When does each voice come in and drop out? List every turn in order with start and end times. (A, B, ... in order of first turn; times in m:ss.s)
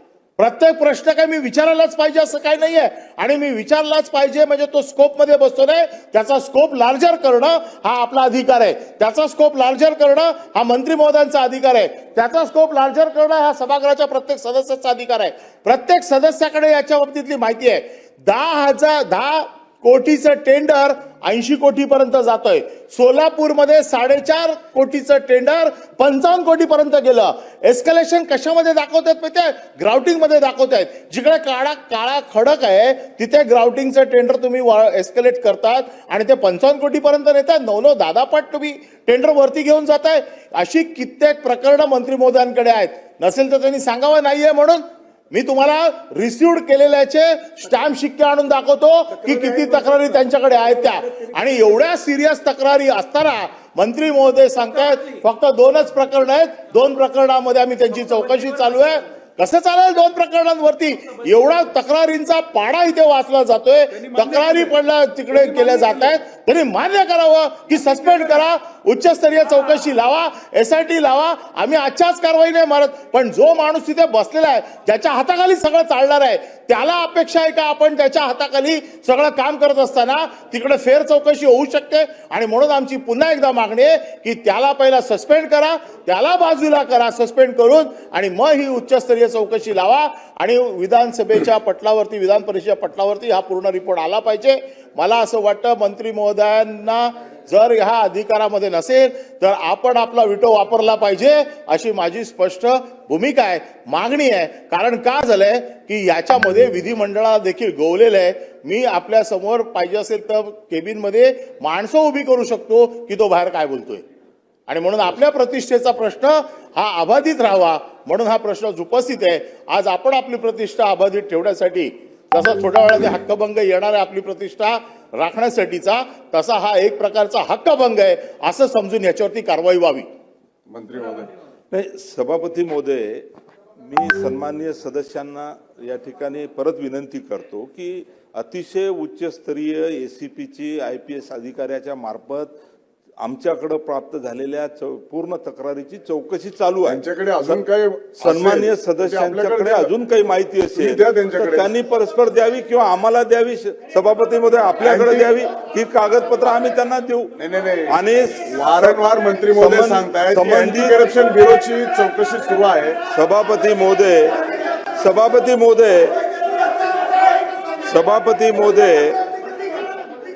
0:00.4-1:54.0 A
1:54.7-2:10.1 A
2:10.7-2:11.3 B
2:11.7-2:13.2 C
2:13.8-2:22.5 C
2:23.2-2:27.6 C
2:26.8-2:29.9 B
2:28.2-2:37.3 C
2:30.7-2:31.7 B
2:34.8-2:35.3 B
2:37.4-2:37.9 B
2:37.9-2:41.1 C
2:38.4-2:43.0 B
2:43.1-2:44.4 C
2:45.0-2:46.2 C
2:47.8-2:49.2 C